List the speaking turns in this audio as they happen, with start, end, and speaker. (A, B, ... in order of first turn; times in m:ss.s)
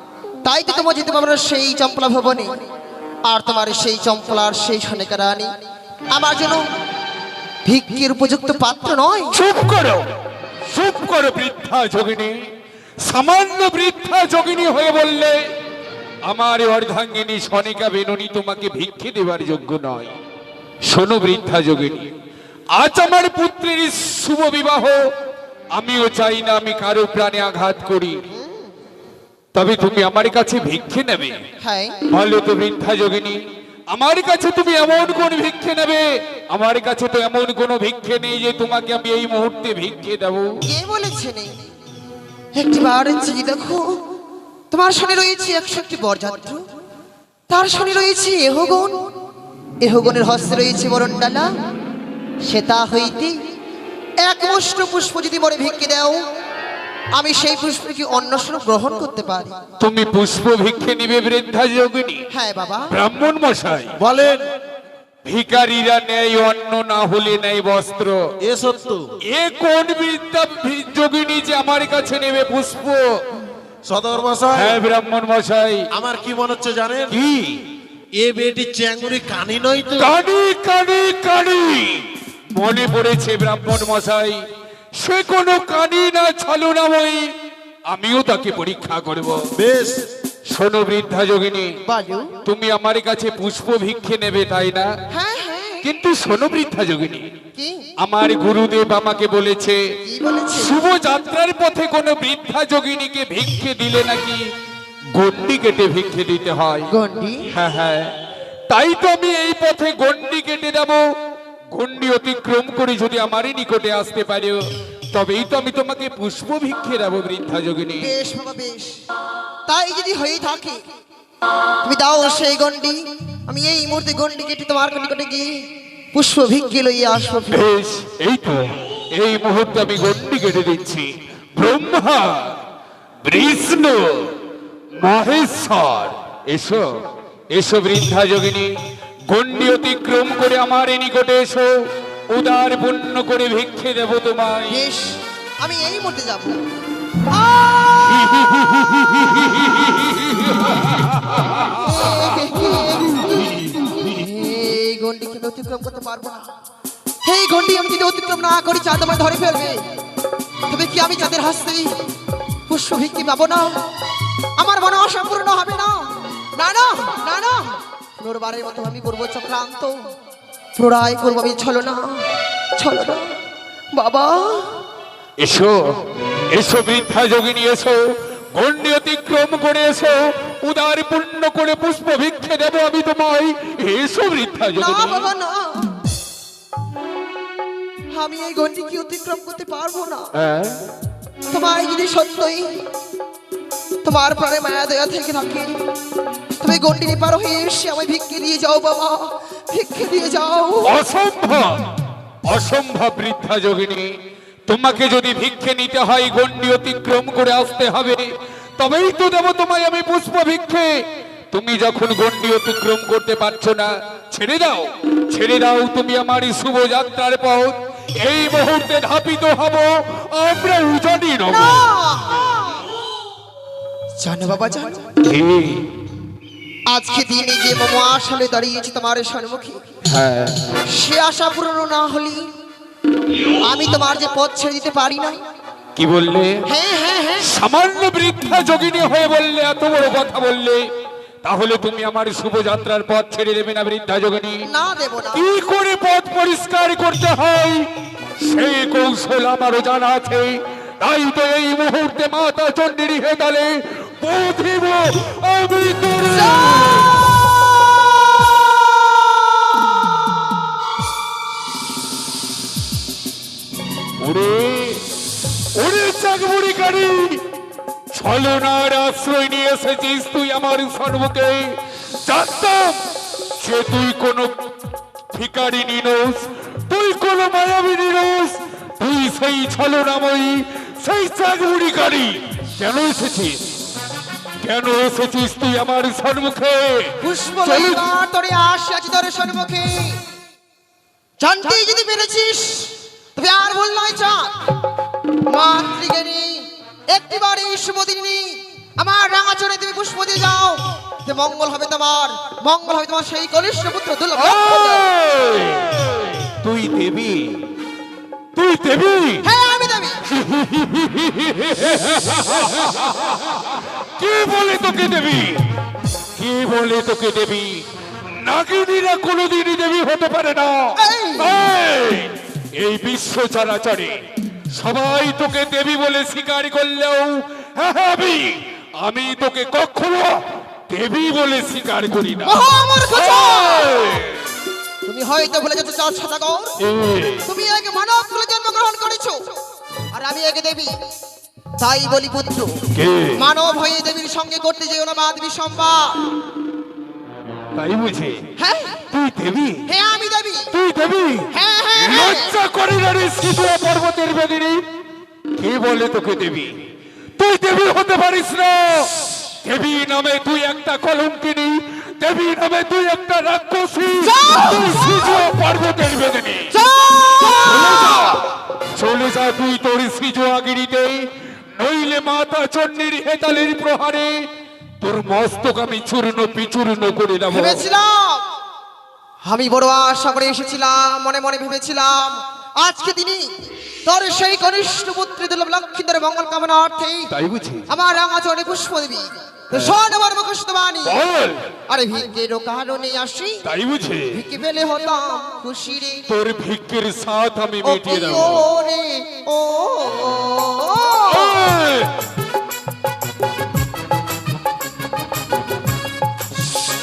0:00.4-0:02.6 A
0:03.2-0:05.5 A
0:06.1-0:06.7 A
0:07.6-0:09.4 A
0:09.3-0:10.1 B
0:10.7-0:12.4 B
0:13.0-0:15.4 B
0:16.3-0:20.1 B
0:20.9-0:22.1 B
0:22.7-0:25.0 B
0:25.7-0:28.2 B
0:28.3-0:28.7 A
0:29.5-0:31.4 B
0:31.6-0:32.1 A
0:32.1-0:33.4 B
0:33.9-0:40.5 B
0:40.7-0:41.6 A
0:42.6-0:43.9 A
0:44.7-0:46.6 A
0:47.5-0:49.0 A
0:49.8-0:51.5 A
0:52.5-0:53.4 A
0:54.2-0:56.3 A
0:57.2-0:59.6 A
0:59.8-1:02.2 B
1:02.3-1:02.9 A
1:02.9-1:03.9 B
1:04.0-1:04.4 C
1:05.2-1:08.2 B
1:08.4-1:09.0 C
1:09.3-1:13.1 B
1:13.9-1:14.8 C
1:14.5-1:15.8 B
1:15.9-1:17.2 C
1:17.1-1:17.7 B
1:18.2-1:20.1 C
1:20.0-1:24.5 B
1:25.0-1:27.3 B
1:27.9-1:29.4 B
1:29.6-1:30.0 C
1:30.5-1:31.8 B
1:31.9-1:32.4 A
1:32.4-1:34.9 B
1:35.1-1:35.8 A
1:35.8-1:37.3 B
1:37.6-1:37.9 A
1:38.0-1:39.8 B
1:40.0-1:40.7 A
1:40.5-1:44.5 B
1:45.1-1:46.9 B
1:46.9-1:47.5 A
1:47.5-1:48.1 B
1:48.7-1:51.1 B
1:51.7-1:54.6 B
1:55.1-1:58.1 B
1:58.0-1:58.9 A
1:59.7-2:00.8 A
2:01.8-2:05.6 A
2:06.1-2:07.6 A
2:07.5-2:12.6 B
2:13.2-2:14.3 B
2:15.0-2:17.0 B
2:17.5-2:18.7 B
2:19.3-2:21.7 B
2:22.3-2:24.8 B
2:24.7-2:26.6 A
2:27.3-2:28.3 A
2:28.1-2:31.6 B
2:31.8-2:36.5 A
2:37.2-2:39.8 A
2:40.7-2:42.0 A
2:42.7-2:43.8 A
2:44.6-2:50.0 A
2:50.8-2:52.2 A
2:52.8-2:53.3 A
2:53.9-2:54.8 A
2:55.4-2:55.8 B
2:56.5-2:58.0 B
2:58.5-3:05.3 B
3:04.8-3:05.9 A
3:08.1-3:10.3 A
3:10.3-3:10.9 B
3:11.5-3:12.8 A
3:14.0-3:15.7 A
3:16.6-3:21.0 A
3:20.8-3:21.9 B
3:22.5-3:24.1 B
3:24.7-3:28.3 B
3:28.8-3:30.9 B
3:31.5-3:41.9 B
3:41.5-3:42.9 A
3:44.2-3:45.2 A
3:45.2-3:45.9 B
3:46.9-3:49.8 A
3:50.0-3:50.8 B
3:50.8-3:52.5 A
3:53.6-3:55.4 A
3:56.0-3:56.7 B
3:56.7-3:57.5 A
3:57.4-4:00.9 B
4:01.4-4:04.6 B
4:04.6-4:05.4 A
4:05.3-4:17.3 B
4:16.5-4:17.0 A
4:24.2-4:25.0 B
4:25.7-4:27.4 B
4:28.1-4:33.1 B
4:33.6-4:34.6 B
4:35.3-4:43.7 B
4:44.6-4:48.1 B
4:47.2-4:50.2 A
4:51.4-4:54.7 A
4:55.5-5:05.1 A
5:04.4-5:07.7 B
5:08.6-5:09.5 B
5:09.4-5:10.2 A
5:10.3-5:15.7 B
5:16.4-5:24.2 B
5:20.9-5:21.6 A
5:24.7-5:34.5 B
5:32.4-5:34.0 A
5:35.1-5:36.8 A
5:36.8-5:37.5 B
5:37.4-5:39.4 A
5:40.1-5:41.0 A
5:41.8-5:42.7 A
5:42.9-5:43.4 B
5:43.4-5:46.2 A
5:47.7-5:48.5 B
5:48.6-5:49.0 A
5:49.1-5:49.9 B
5:49.8-5:50.7 A
5:50.7-5:54.8 B
5:51.5-5:52.6 A
5:55.6-5:56.8 B
5:57.4-6:06.8 B
6:04.2-6:05.4 A
6:06.7-6:08.4 A
6:07.4-6:14.5 B
6:15.0-6:17.8 B
6:17.5-6:18.4 A
6:19.4-6:23.5 A
6:24.0-6:27.3 A
6:27.3-6:27.9 B
6:27.9-6:31.2 A
6:29.7-6:30.0 B
6:31.0-6:31.7 B
6:31.9-6:33.7 A
6:33.6-6:34.4 B
6:34.3-6:36.3 A
6:36.3-6:38.7 B
6:37.8-6:41.7 A
6:41.3-6:42.2 B